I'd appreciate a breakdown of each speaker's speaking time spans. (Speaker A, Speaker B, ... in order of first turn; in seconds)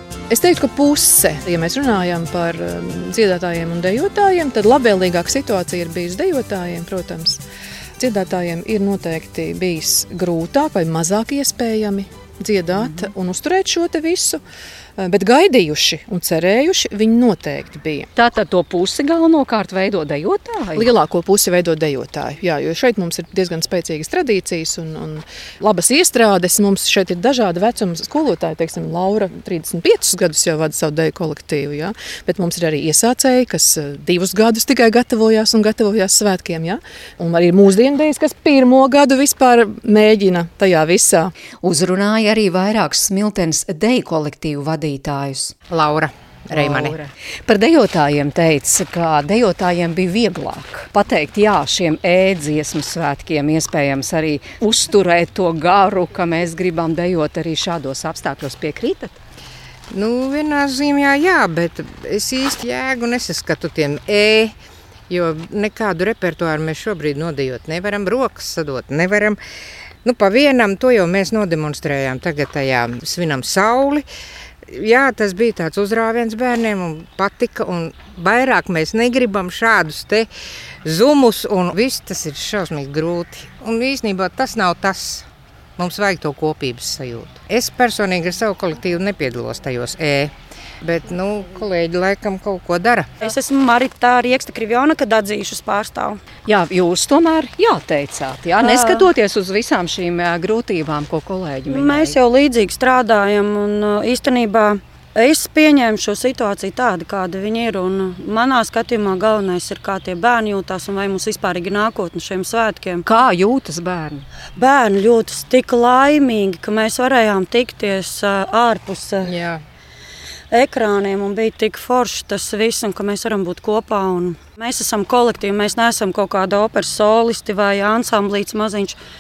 Speaker A: 0.3-7.4, 8.0-14.4, 15.0-18.1, 20.8-41.3
Speaker B: 12.7-13.1, 18.1-20.9, 41.6-45.6, 46.5-59.2, 96.5-102.2, 113.0-114.2
Speaker C: 45.7-47.0, 59.9-64.6, 65.1-69.4, 70.0-74.0, 74.7-80.3, 80.8-85.3, 85.8-93.1
Speaker D: 93.2-96.2, 98.6-99.1, 101.7-113.0, 114.6-119.4, 120.5-129.0